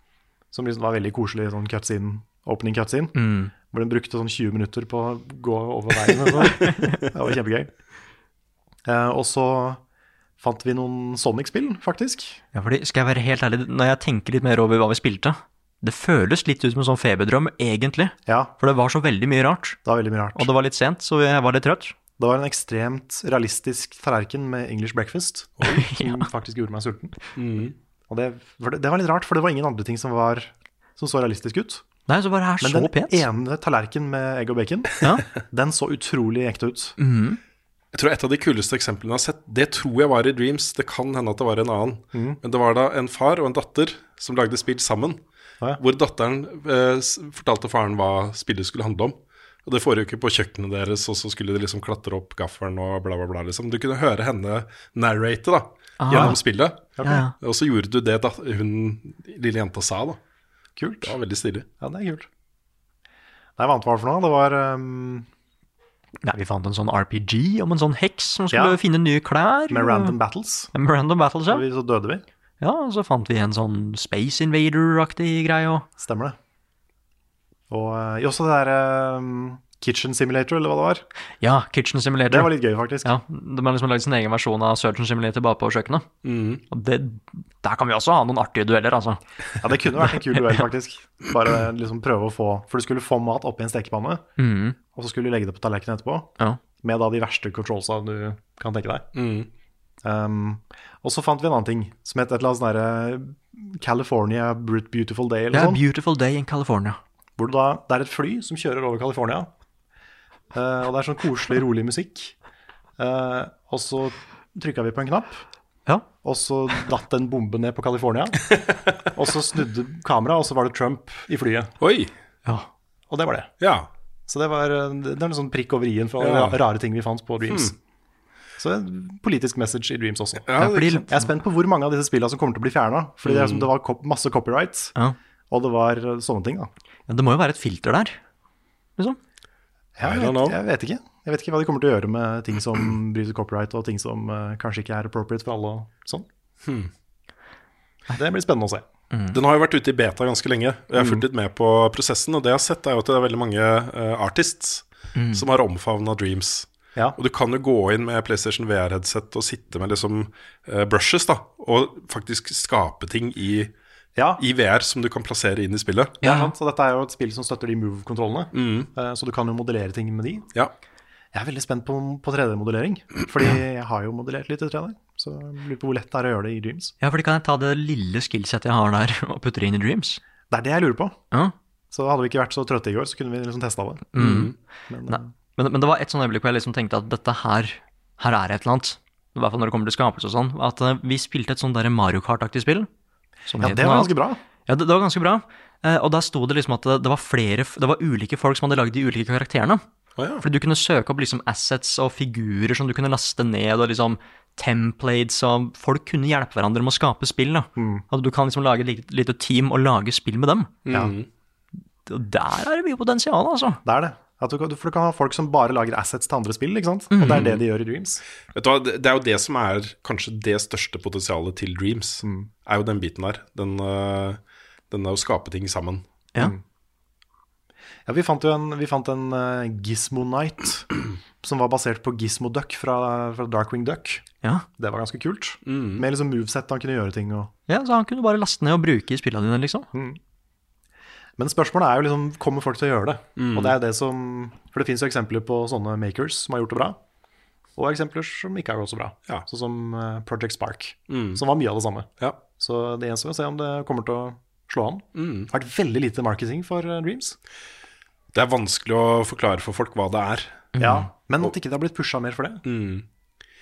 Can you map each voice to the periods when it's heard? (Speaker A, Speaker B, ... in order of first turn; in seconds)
Speaker A: 0.5-3.1, 3.7-7.7, 8.8-9.8, 10.4-12.4, 18.3-18.5, 19.8-20.5, 22.2-27.2, 28.1-31.8, 32.6-37.0, 42.1-42.4, 56.1-56.4, 57.0-57.3, 60.8-61.1, 61.8-62.3, 63.6-65.3, 68.5-68.8, 69.7-70.7, 71.5-72.2, 76.0-76.3, 77.7-81.0, 82.3-83.1, 89.6-94.2, 94.9-96.3, 96.8-99.1, 100.0-105.8, 107.4-109.5, 110.5-112.3, 113.0-115.4, 116.2-118.4, 119.1-121.7, 123.1-123.5, 124.3-127.7, 128.6-130.5, 131.1-134.9, 135.5-136.7, 140.0-146.3, 148.1-148.8, 150.9-151.2, 164.2-164.4, 166.2-170.5, 171.3-176.9, 180.5-181.2, 181.9-184.1, 184.9-185.3, 193.6-194.4, 207.8-208.0, 210.9-211.1, 213.8-218.2, 222.2-222.5, 228.1-230.9, 231.4-234.2, 234.8-237.5, 239.9-240.2, 241.4-247.0, 247.8-257.4, 260.8-262.6
Speaker B: 3.1-3.5, 6.3-7.0, 12.5-19.8, 20.4-21.9, 25.7-26.3, 32.1-33.2, 37.0-37.4, 56.0-56.4, 57.0-57.3, 66.2-70.1, 70.7-71.6, 72.6-75.8, 81.4-86.1, 86.7-89.2, 90.0-90.6, 94.4-94.8, 105.5-107.0, 130.6-131.2, 137.1-138.2, 149.1-149.4, 155.2-155.4, 166.2-166.5, 177.0-180.2, 184.1-184.5, 185.1-192.9, 193.5-194.1, 194.7-199.8, 200.4-210.8, 212.1-213.8, 217.1-217.4, 237.7-239.9, 260.7-261.1
Speaker C: 27.4-27.7, 37.9-45.2, 45.8-56.8, 57.4-60.2, 61.0-61.7, 86.2-86.6, 99.1-99.5, 121.8-122.1, 123.6-123.9, 126.2-126.6, 127.5-127.7, 130.4-131.0, 133.2-133.7, 140.0-140.6, 146.6-146.9, 149.3-163.7, 164.4-166.2, 168.5-168.9, 184.2-184.5, 200.2-200.4, 210.8-211.3, 217.2-217.6, 218.5-226.0, 235.6-236.0, 243.4-243.8, 251.1-251.4, 255.1-255.5, 258.3-260.7, 262.6-263.1